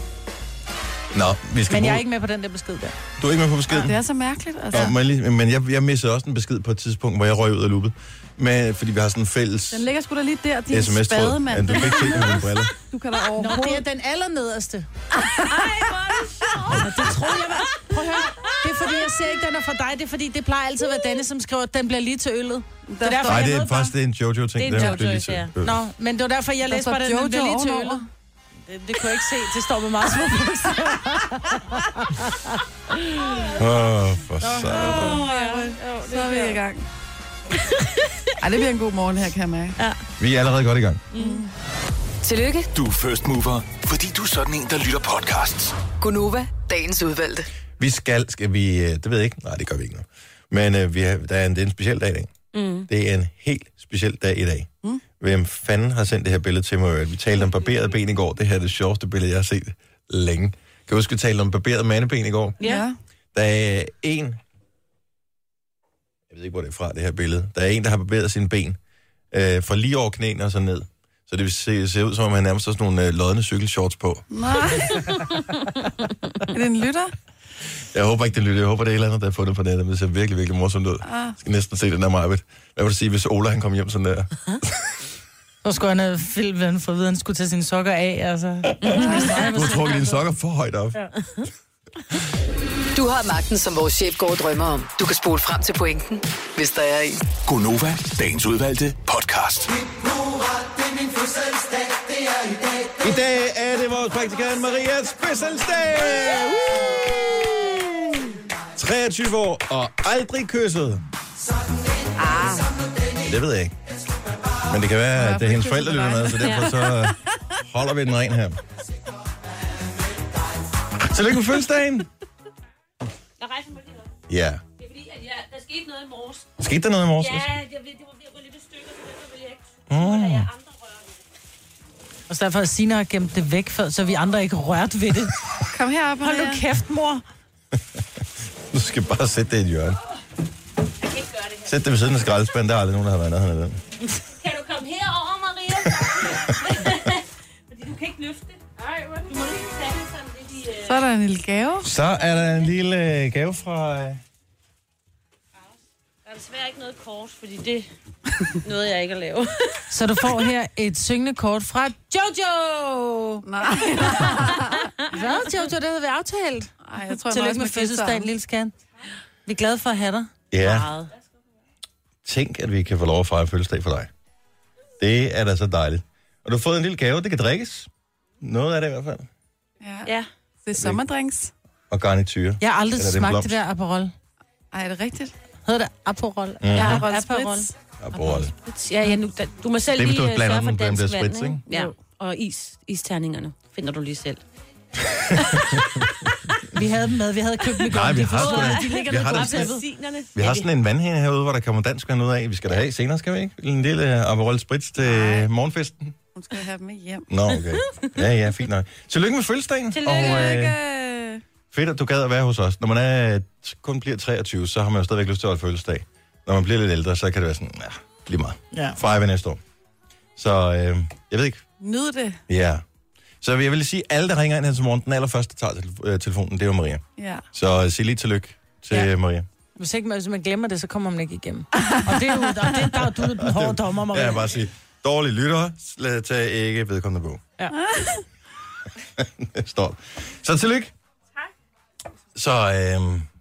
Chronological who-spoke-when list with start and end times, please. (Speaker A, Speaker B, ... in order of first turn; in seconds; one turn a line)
Speaker A: 1.1-2.0
Speaker B: 1.7-3.0
Speaker A: 3.2-4.0
Speaker C: 3.7-4.9
Speaker A: 4.7-9.9
Speaker C: 9.7-13.8
Speaker A: 10.7-12.7
Speaker B: 13.4-14.9
Speaker D: 15.2-17.2
Speaker C: 15.5-15.9
Speaker B: 16.7-23.9
Speaker C: 22.9-23.7
Speaker A: 23.2-25.8
Speaker D: 24.6-25.5
Speaker B: 25.6-28.0
Speaker C: 26.6-28.1
Speaker B: 28.7-32.6
Speaker D: 33.0-33.6
Speaker A: 33.5-35.2
Speaker B: 34.4-34.8
Speaker C: 34.7-36.8
Speaker D: 34.8-36.6
Speaker D: 37.5-38.3
Speaker C: 38.4-39.8
Speaker A: 40.2-41.0
Speaker D: 41.1-41.4
Speaker C: 41.1-41.5
Speaker E: 42.2-42.7
Speaker F: 42.8-45.8
Speaker E: 46.0-47.5
Speaker A: 47.8-52.3
Speaker D: 52.5-52.9
Speaker A: 52.9-54.7
Speaker A: 55.2-62.6
Speaker D: 62.6-62.9
Speaker C: 62.6-63.0
Speaker A: 63.3-64.4
Speaker A: 66.3-68.8
Speaker A: 69.3-74.3
Speaker C: 74.3-75.2
Speaker C: 76.5-77.1
Speaker A: 77.9-84.9
Speaker C: 81.0-81.4
Speaker B: 85.6-90.2
Speaker A: 88.8-91.1
Speaker E: 92.9-97.2
Speaker F: 97.5-99.8
Speaker A: 103.0-108.2
Speaker A: 108.8-111.0
Speaker A: 113.2-113.7
Speaker A: 114.7-118.6
Speaker C: 115.1-117.2
Speaker D: 116.4-116.7
Speaker A: 121.0-122.1
Speaker D: 123.4-124.1
Speaker A: 124.3-124.6
Speaker D: 124.8-126.5
Speaker A: 126.6-127.6
Speaker D: 127.2-131.0
Speaker A: 129.9-130.5
Speaker B: 132.3-135.4
Speaker C: 135.7-136.6
Speaker B: 136.2-137.2
Speaker A: 138.7-140.0
Speaker D: 141.1-141.6
Speaker A: 141.6-143.8
Speaker D: 144.3-151.0
Speaker A: 145.9-146.5
Speaker C: 150.8-151.9
Speaker A: 151.8-154.2
Speaker D: 156.2-157.9
Speaker D: 158.6-159.9
Speaker B: 159.9-163.4
Speaker C: 163.4-164.9
Speaker B: 165.1-166.7
Speaker C: 166.8-168.3
Speaker B: 167.2-168.8
Speaker B: 169.5-170.3
Speaker A: 170.5-170.9
Speaker D: 170.6-171.1
Speaker A: 172.2-174.1
Speaker A: 175.0-177.9
Speaker A: 178.4-179.3
Speaker C: 179.8-180.1
Speaker C: 180.6-181.5
Speaker A: 181.9-183.6
Speaker B: 182.6-184.1
Speaker C: 184.7-185.3
Speaker B: 185.7-187.7
Speaker A: 186.6-187.0
Speaker D: 186.8-187.6
Speaker C: 186.8-187.7
Speaker A: 188.0-188.5
Speaker D: 188.5-194.4
Speaker A: 189.9-191.6
Speaker A: 195.0-196.1
Speaker D: 195.4-195.8
Speaker B: 196.7-199.8
Speaker A: 197.9-199.8
Speaker D: 198.2-200.7
Speaker A: 200.3-206.1
Speaker C: 205.0-205.5
Speaker C: 206.3-207.2
Speaker A: 207.3-210.8
Speaker D: 209.9-210.6
Speaker C: 210.0-211.4
Speaker A: 211.7-219.6
Speaker B: 218.7-219.0
Speaker A: 220.4-221.6
Speaker C: 221.8-222.4
Speaker A: 222.5-222.8
Speaker A: 223.4-229.5
Speaker C: 227.2-227.4
Speaker B: 229.8-234.4
Speaker C: 231.8-232.6
Speaker A: 233.4-237.4
Speaker C: 237.7-238.2
Speaker A: 239.2-240.9
Speaker A: 242.3-243.3